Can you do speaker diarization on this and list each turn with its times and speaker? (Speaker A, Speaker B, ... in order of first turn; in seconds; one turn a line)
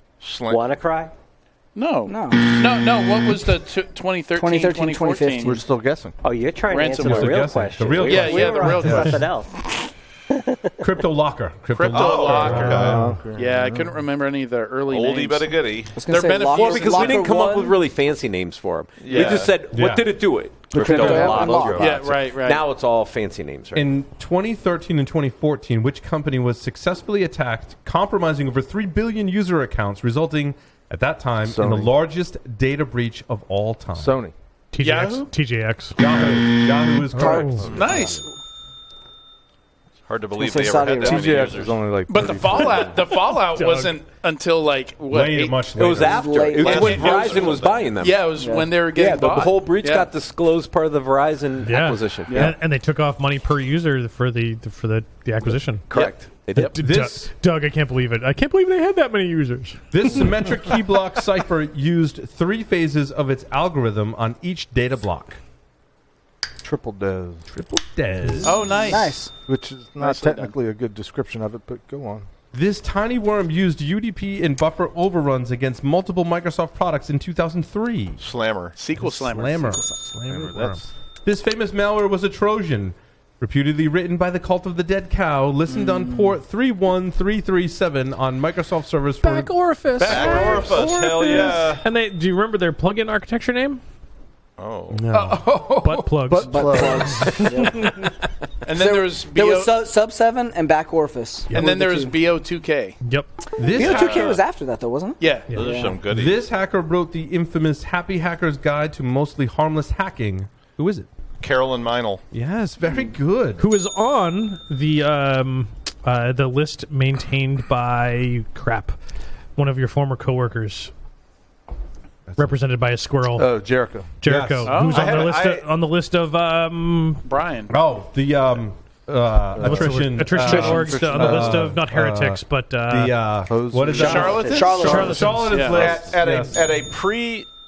Speaker A: 0.2-0.6
Speaker B: 0.5-1.1
Speaker C: 1.8-5.6
Speaker D: 2.1-2.6
Speaker D: 4.4-5.6
Speaker E: 5.4-6.2
Speaker B: 6.2-9.7
Speaker C: 6.7-9.3
Speaker F: 7.0-9.2
Speaker F: 10.8-13.2
Speaker C: 11.7-17.4
Speaker A: 11.9-13.1
Speaker G: 12.6-12.9
Speaker E: 12.6-14.0
Speaker A: 14.9-16.0
Speaker D: 16.0-17.8
Speaker H: 16.4-23.9
Speaker A: 19.0-19.7
Speaker C: 19.1-19.4
Speaker F: 19.6-21.5
Speaker E: 20.7-21.7
Speaker D: 20.7-22.0
Speaker C: 21.7-22.7
Speaker F: 23.7-34.2
Speaker E: 31.4-31.9
Speaker E: 34.0-34.3
Speaker G: 34.7-36.4
Speaker C: 34.8-35.3
Speaker F: 36.0-37.9
Speaker D: 37.1-38.1
Speaker G: 37.2-37.7
Speaker C: 37.7-38.3
Speaker A: 40.1-41.9
Speaker D: 40.4-41.6
Speaker E: 41.0-43.1
Speaker C: 42.1-45.6
Speaker G: 43.5-44.0
Speaker F: 45.1-46.4
Speaker H: 45.8-52.6
Speaker D: 46.0-47.4
Speaker A: 46.6-48.0
Speaker C: 48.0-50.1
Speaker D: 48.4-48.7
Speaker G: 51.6-60.5
Speaker C: 52.3-52.6
Speaker H: 55.9-56.8
Speaker F: 56.7-57.3
Speaker F: 59.9-65.4
Speaker E: 66.6-67.4
Speaker F: 67.5-68.9
Speaker C: 68.4-69.2
Speaker D: 68.8-69.3
Speaker E: 69.5-72.3
Speaker C: 70.0-70.5
Speaker F: 72.5-78.2
Speaker A: 78.2-78.8
Speaker C: 78.8-79.8
Speaker F: 79.0-89.6
Speaker E: 80.3-80.9
Speaker D: 85.7-86.3
Speaker G: 89.2-93.8
Speaker A: 90.0-91.9
Speaker A: 94.6-95.1
Speaker F: 94.9-95.6
Speaker C: 95.1-96.1
Speaker G: 95.8-98.1
Speaker E: 96.3-97.4
Speaker D: 96.3-98.1
Speaker C: 98.7-99.8
Speaker D: 98.7-102.2
Speaker C: 101.5-103.0
Speaker G: 103.0-103.3
Speaker F: 103.6-104.4
Speaker D: 103.6-106.0
Speaker A: 103.8-104.4
Speaker C: 105.2-105.5
Speaker G: 105.5-105.8
Speaker A: 105.5-106.5
Speaker F: 106.1-111.1
Speaker A: 111.4-112.2
Speaker F: 112.3-113.6
Speaker G: 113.6-119.0
Speaker G: 119.6-120.9
Speaker G: 122.4-123.6
Speaker E: 123.4-124.1
Speaker G: 124.2-127.2
Speaker F: 124.2-124.9
Speaker C: 124.6-125.4
Speaker A: 124.8-125.7
Speaker C: 127.2-127.7
Speaker F: 127.7-132.4
Speaker E: 129.5-132.3
Speaker G: 129.6-133.3
Speaker F: 132.9-136.7
Speaker E: 133.5-134.3
Speaker B: 133.9-135.1
Speaker C: 133.9-136.1
Speaker D: 134.2-135.3
Speaker G: 134.8-135.7
Speaker A: 135.6-137.5